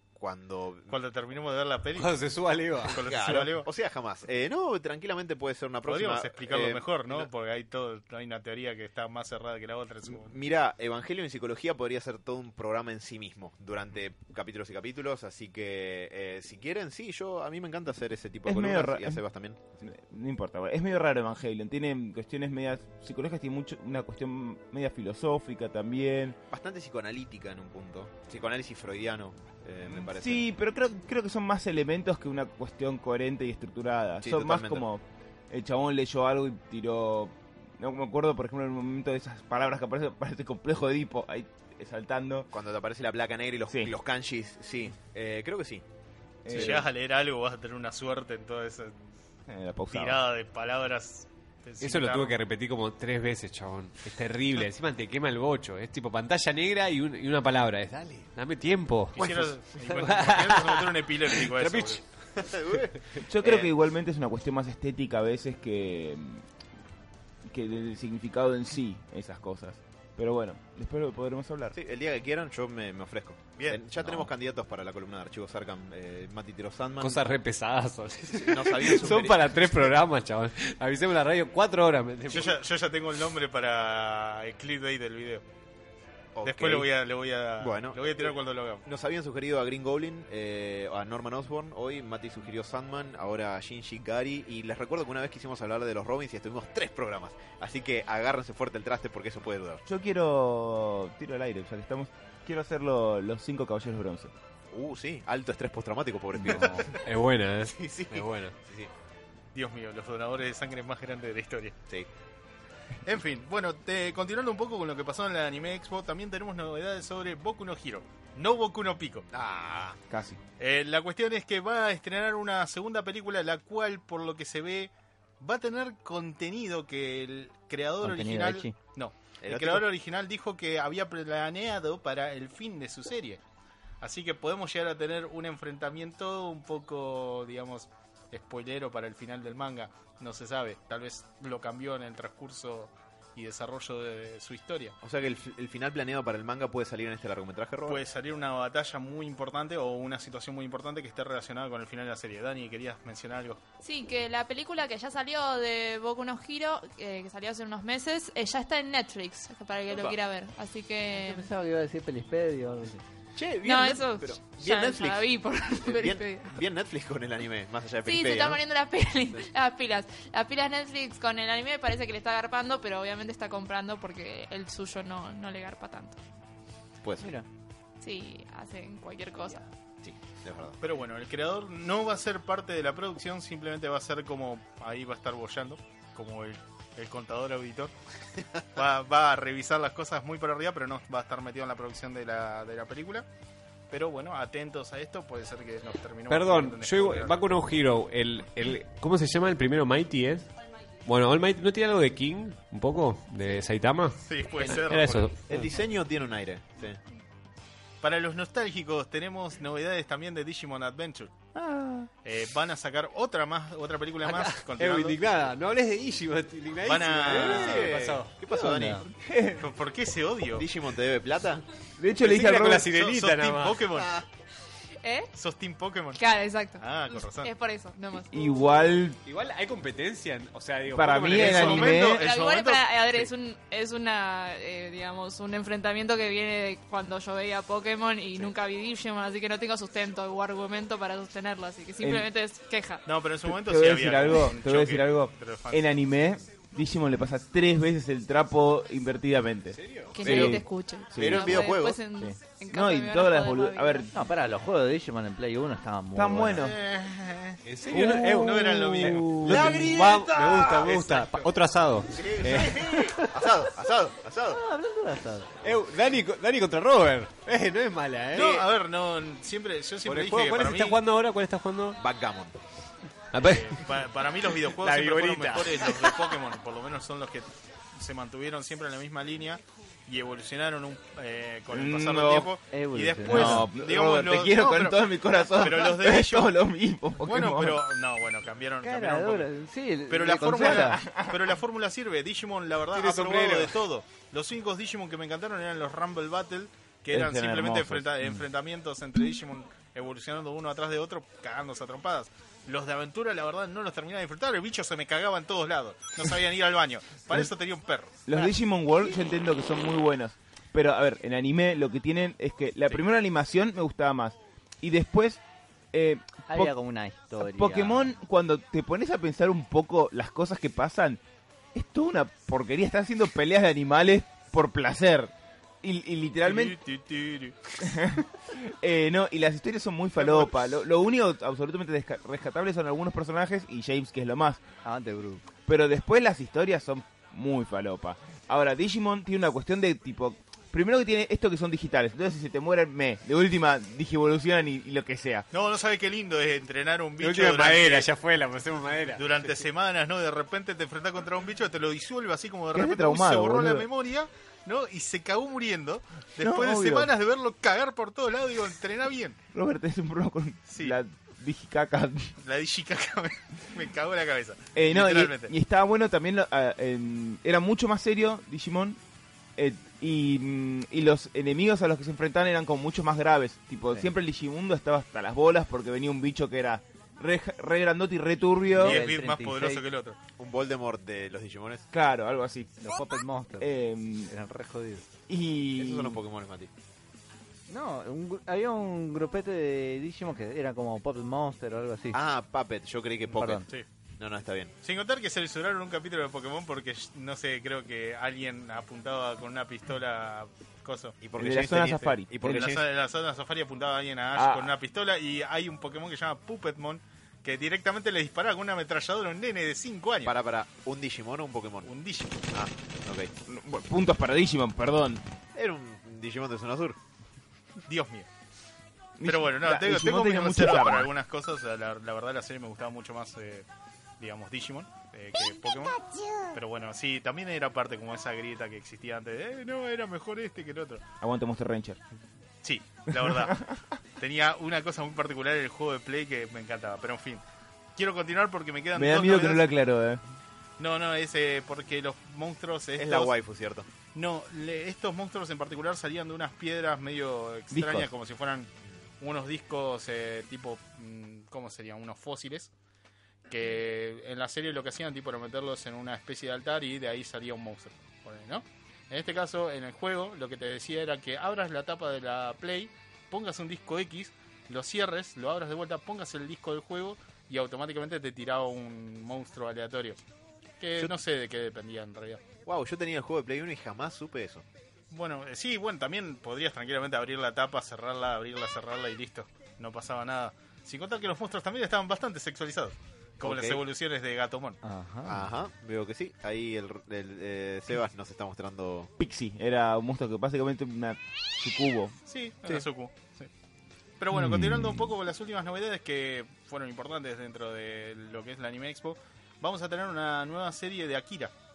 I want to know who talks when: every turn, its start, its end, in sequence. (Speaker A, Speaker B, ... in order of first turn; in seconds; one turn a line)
Speaker A: 0.1-0.9
Speaker B: 0.9-2.1
Speaker C: 1.9-3.0
Speaker B: 2.8-3.7
Speaker A: 3.0-7.3
Speaker B: 5.8-10.4
Speaker A: 10.1-19.6
Speaker D: 18.4-19.2
Speaker D: 19.8-26.4
Speaker A: 26.5-30.4
Speaker D: 29.8-42.5
Speaker A: 34.2-34.8
Speaker A: 42.5-45.8
Speaker D: 43.7-43.9
Speaker D: 46.4-46.9
Speaker A: 46.5-46.9
Speaker B: 46.5-48.9
Speaker D: 49.5-50.2
Speaker B: 49.9-52.4
Speaker C: 51.8-62.3
Speaker B: 59.1-62.0
Speaker A: 62.4-63.7
Speaker D: 63.2-66.4
Speaker D: 67.5-71.8
Speaker A: 71.7-77.3
Speaker C: 77.0-82.5
Speaker A: 78.3-80.0
Speaker B: 82.3-85.4
Speaker A: 86.3-86.9
Speaker B: 86.4-88.8
Speaker A: 87.6-88.3
Speaker A: 88.8-99.8
Speaker D: 99.8-104.3
Speaker A: 104.7-107.0
Speaker C: 106.4-108.5
Speaker A: 107.6-108.9
Speaker B: 109.5-111.7
Speaker B: 113.0-119.3
Speaker A: 119.3-120.0
Speaker D: 120.1-120.4
Speaker B: 120.6-133.4
Speaker E: 128.0-128.7
Speaker A: 129.4-129.8
Speaker B: 134.0-145.0
Speaker A: 145.0-148.0
Speaker B: 147.8-153.6
Speaker F: 153.8-161.5
Speaker E: 161.1-163.0
Speaker A: 163.3-165.2
Speaker F: 163.6-166.6
Speaker A: 165.8-168.6
Speaker F: 168.0-176.2
Speaker A: 177.0-177.3
Speaker E: 177.2-177.5
Speaker F: 178.0-179.7
Speaker A: 180.0-180.8
Speaker B: 180.8-187.9
Speaker B: 188.7-193.2
Speaker B: 193.9-197.4
Speaker C: 196.3-200.5
Speaker C: 201.0-205.5
Speaker B: 204.2-205.3
Speaker A: 205.5-207.0
Speaker B: 208.0-211.3
Speaker E: 211.5-212.1
Speaker B: 212.2-215.2
Speaker C: 214.2-218.3
Speaker B: 216.8-218.0
Speaker A: 217.3-219.1
Speaker E: 218.5-219.1
Speaker D: 219.2-219.7
Speaker B: 219.6-220.7
Speaker A: 220.5-221.6
Speaker D: 222.0-222.9
Speaker C: 222.2-223.9
Speaker B: 222.7-224.2
Speaker F: 225.0-225.3
Speaker B: 225.3-226.2
Speaker F: 226.2-228.5
Speaker B: 226.8-227.5
Speaker D: 228.3-229.2
Speaker C: 229.2-232.0
Speaker D: 230.9-232.2
Speaker B: 231.3-233.3
Speaker F: 232.0-243.1
Speaker D: 242.0-242.3
Speaker B: 243.1-246.1
Speaker D: 243.4-251.6
Speaker C: 249.7-250.3
Speaker F: 250.1-254.1
Speaker A: 250.2-250.6
Speaker A: 251.1-252.0
Speaker D: 252.7-254.1
Speaker E: 254.1-256.6
Speaker D: 256.1-256.8
Speaker B: 256.5-261.5
Speaker C: 257.6-263.3
Speaker D: 257.9-259.8
Speaker A: 259.6-260.1
Speaker A: 262.1-264.6
Speaker E: 264.5-265.5
Speaker C: 265.6-268.6
Speaker A: 268.3-268.6
Speaker B: 268.3-271.0
Speaker C: 270.0-272.0
Speaker A: 272.0-272.5
Speaker C: 273.3-273.9
Speaker B: 273.4-286.5
Speaker C: 274.7-276.2
Speaker D: 281.7-282.5
Speaker E: 282.7-283.6
Speaker D: 283.2-287.8
Speaker B: 287.2-289.5
Speaker E: 288.8-291.0
Speaker B: 290.1-308.5
Speaker D: 290.4-291.6
Speaker C: 292.9-293.8
Speaker D: 297.1-298.2
Speaker D: 308.2-315.4
Speaker D: 315.9-316.7
Speaker E: 316.5-318.1
Speaker D: 317.4-321.2
Speaker D: 321.7-326.8
Speaker B: 326.4-327.7
Speaker D: 327.8-334.6
Speaker B: 330.2-330.7
Speaker E: 334.8-335.4
Speaker D: 335.7-345.4
Speaker B: 345.5-348.1
Speaker C: 347.2-349.5
Speaker B: 349.1-359.4
Speaker D: 352.7-353.9
Speaker D: 356.4-357.1
Speaker D: 359.5-362.3
Speaker B: 360.7-361.0
Speaker B: 362.4-365.5
Speaker D: 364.7-369.0
Speaker D: 369.6-379.0
Speaker E: 378.7-379.8
Speaker B: 378.8-380.2
Speaker A: 380.4-381.9
Speaker D: 381.9-382.7
Speaker E: 382.8-383.7
Speaker D: 383.6-384.3
Speaker E: 384.2-385.1
Speaker D: 385.3-386.2
Speaker A: 385.8-386.7
Speaker E: 387.7-392.2
Speaker A: 392.1-393.6
Speaker E: 393.3-393.7
Speaker A: 394.2-394.7
Speaker B: 394.8-401.1
Speaker A: 401.2-402.9
Speaker D: 401.4-402.6
Speaker B: 402.4-410.3
Speaker D: 404.3-404.7
Speaker A: 410.2-411.9
Speaker B: 411.8-412.4
Speaker A: 412.5-413.3
Speaker D: 413.4-415.2
Speaker A: 415.5-417.0
Speaker B: 417.9-418.3
Speaker D: 419.2-421.1
Speaker B: 419.2-423.6
Speaker B: 424.2-431.0
Speaker D: 431.2-432.0
Speaker B: 432.6-433.6
Speaker D: 433.1-433.8
Speaker B: 434.2-437.4
Speaker B: 437.9-439.7
Speaker D: 438.9-440.2
Speaker B: 440.8-443.3
Speaker A: 443.0-443.9
Speaker B: 444.1-448.7
Speaker D: 447.7-448.1
Speaker B: 449.2-452.7
Speaker B: 453.5-470.2
Speaker B: 470.8-472.4
Speaker A: 472.6-474.6
Speaker B: 475.1-484.8
Speaker A: 483.4-483.8
Speaker E: 484.8-485.4
Speaker A: 485.2-489.1
Speaker D: 489.2-492.1
Speaker B: 492.3-493.5
Speaker B: 494.2-501.5
Speaker C: 494.6-494.9